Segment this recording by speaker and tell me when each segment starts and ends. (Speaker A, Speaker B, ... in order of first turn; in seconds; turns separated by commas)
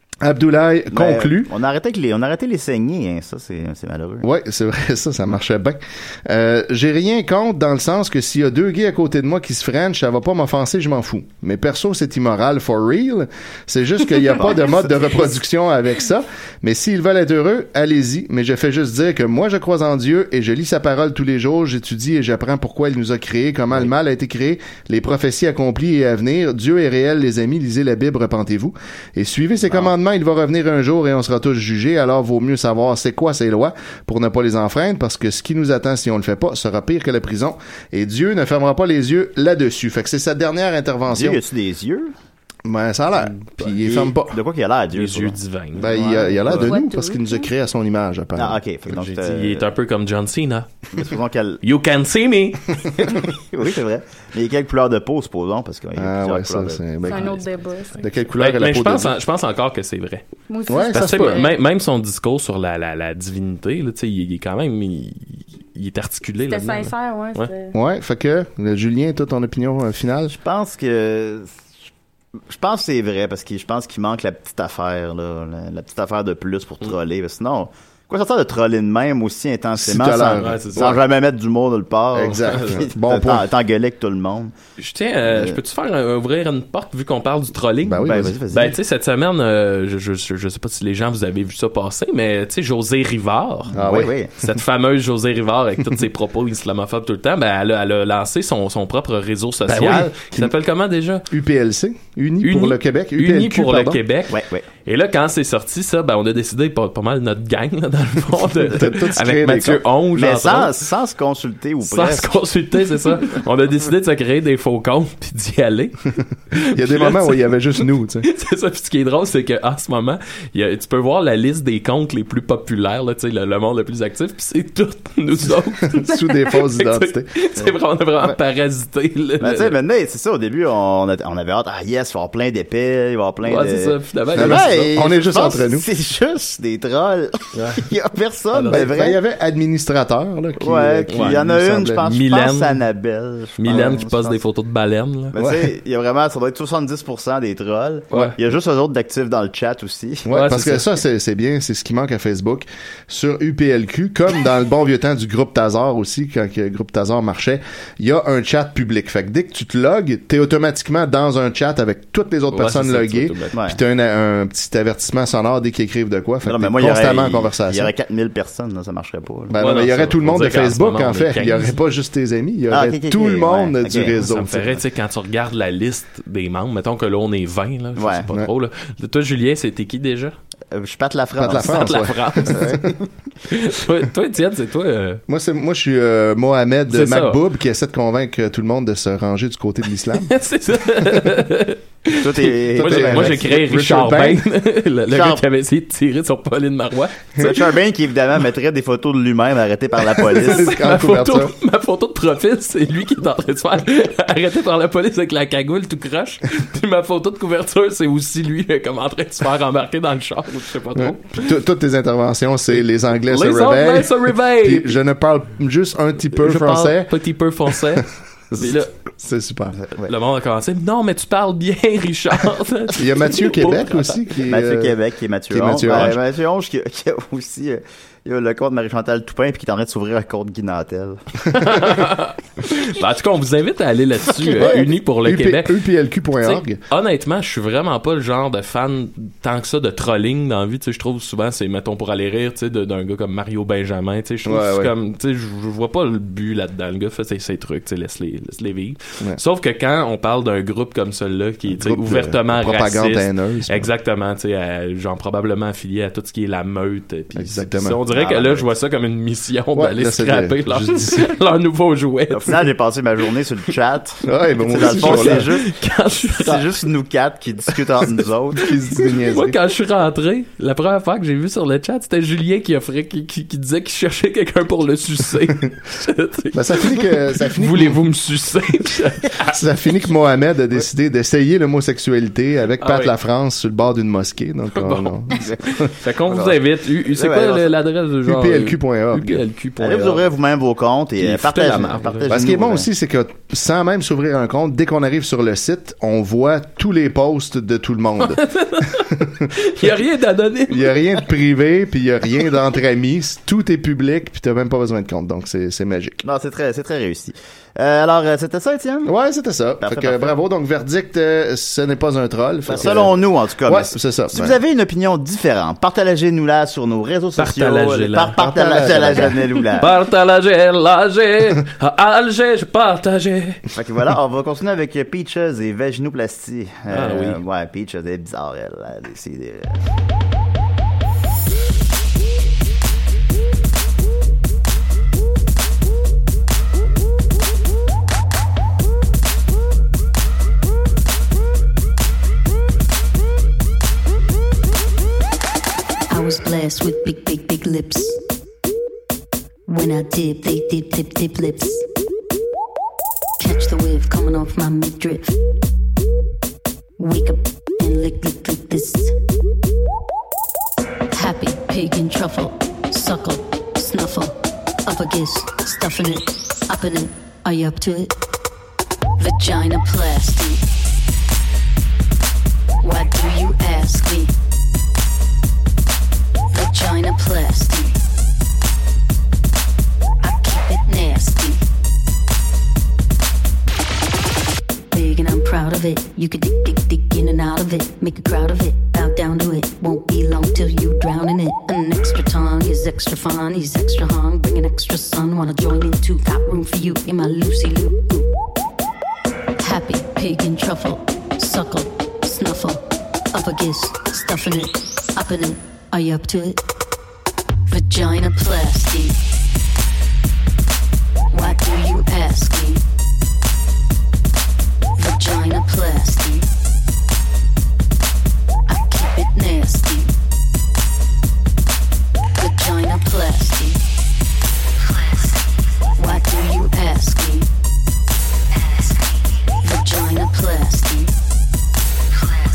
Speaker A: 0.2-1.5, Speaker B: 0.9-4.3, Speaker A: 4.2-41.4, Speaker B: 14.4-15.3, Speaker B: 29.6-29.9, Speaker B: 41.1-42.1, Speaker A: 42.7-44.4, Speaker B: 43.6-45.4, Speaker C: 45.0-46.6, Speaker A: 45.8-48.6, Speaker B: 46.0-46.7, Speaker D: 46.6-47.5, Speaker B: 48.4-49.7, Speaker C: 48.9-50.8, Speaker B: 50.9-51.6, Speaker C: 51.6-53.1, Speaker B: 53.5-56.8, Speaker A: 56.0-57.4, Speaker D: 57.1-58.1, Speaker A: 58.0-59.1, Speaker C: 58.4-60.2, Speaker D: 60.5-61.5, Speaker A: 60.7-61.4, Speaker C: 60.9-67.5, Speaker D: 66.5-67.7, Speaker A: 67.7-70.4, Speaker B: 70.4-71.5, Speaker B: 72.5-84.5, Speaker A: 79.8-81.0, Speaker C: 80.3-81.0, Speaker A: 82.1-83.5, Speaker C: 82.5-82.8, Speaker C: 84.8-93.8, Speaker B: 85.2-85.6, Speaker A: 87.8-88.4, Speaker B: 88.0-88.8, Speaker B: 93.7-94.3, Speaker A: 93.7-94.1, Speaker C: 94.4-101.3, Speaker A: 99.7-100.5, Speaker A: 101.3-104.0, Speaker C: 102.4-110.8, Speaker B: 104.3-104.7, Speaker A: 108.7-109.8, Speaker B: 110.1-112.4, Speaker C: 111.8-129.7, Speaker A: 116.7-118.3, Speaker A: 125.9-127.3, Speaker B: 129.4-139.2, Speaker C: 133.4-134.9, Speaker A: 134.3-135.8, Speaker C: 137.6-137.9, Speaker C: 138.5-138.8, Speaker A: 138.7-142.0, Speaker B: 140.6-144.4, Speaker C: 141.1-141.4, Speaker C: 142.0-142.8, Speaker C: 143.6-145.3, Speaker B: 145.3-150.3, Speaker A: 145.4-145.7, Speaker C: 148.1-148.4, Speaker A: 150.3-167.9, Speaker C: 150.3-150.9, Speaker C: 162.5-163.5, Speaker B: 163.5-163.8, Speaker B: 166.4-169.6, Speaker A: 169.5-174.8, Speaker C: 169.6-171.8, Speaker B: 172.7-174.2, Speaker C: 174.2-180.3, Speaker B: 178.0-178.3, Speaker B: 180.7-183.0, Speaker A: 181.4-182.9, Speaker C: 181.5-182.8, Speaker C: 183.5-185.2, Speaker A: 185.3-190.3, Speaker C: 186.9-187.4, Speaker C: 190.3-197.6, Speaker B: 192.2-193.5, Speaker A: 192.8-194.4, Speaker B: 195.1-195.4, Speaker B: 197.4-200.8, Speaker C: 200.1-211.5, Speaker A: 200.4-201.5, Speaker A: 211.0-217.1, Speaker C: 212.8-215.0, Speaker C: 216.3-218.9, Speaker A: 217.8-218.0, Speaker A: 218.5-219.8, Speaker B: 219.8-220.1, Speaker C: 220.0-224.2, Speaker A: 222.9-224.9, Speaker B: 224.5-231.2, Speaker A: 225.5-226.2, Speaker C: 225.9-226.1, Speaker C: 231.5-235.8, Speaker B: 234.4-234.8, Speaker A: 234.5-236.8, Speaker C: 236.4-262.7, Speaker A: 244.5-244.9, Speaker A: 251.7-253.9, Speaker A: 257.4-258.0, Speaker B: 258.1-258.7, Speaker A: 259.8-261.3, Speaker B: 262.3-265.7, Speaker A: 264.3-265.5, Speaker C: 264.7-266.8, Speaker B: 266.3-268.7, Speaker C: 267.7-268.1, Speaker A: 268.6-269.6, Speaker C: 268.7-279.6, Speaker A: 276.6-278.0, Speaker A: 279.5-285.5, Speaker C: 282.8-283.1, Speaker C: 284.8-290.3, Speaker B: 285.4-287.7, Speaker A: 288.3-289.4, Speaker B: 289.8-292.9, Speaker C: 291.2-292.3, Speaker A: 292.3-299.4, Speaker C: 298.2-301.0, Speaker A: 300.7-306.2, Speaker B: 306.2-309.1, Speaker A: 309.1-314.6, Speaker B: 309.8-310.4, Speaker B: 312.7-319.9, Speaker C: 317.4-323.6, Speaker A: 318.4-319.4, Speaker B: 323.8-329.8, Speaker C: 326.9-327.4, Speaker E: 346.1-348.2, Speaker E: 349.7-351.8, Speaker E: 353.4-355.4, Speaker E: 357.0-359.1, Speaker E: 361.1-364.3, Speaker E: 364.9-368.1, Speaker E: 369.2-370.6, Speaker E: 372.8-374.3, Speaker E: 376.5-378.0, Speaker E: 380.2-381.6, Speaker E: 384.9-398.3, Speaker E: 399.6-402.8, Speaker E: 403.3-406.6, Speaker E: 407.7-409.2, Speaker E: 411.3-412.8, Speaker E: 415.0-416.5, Speaker E: 418.7-420.1, Speaker E: 422.4-423.8, Speaker E: 426.0-427.5, Speaker E: 429.6-431.1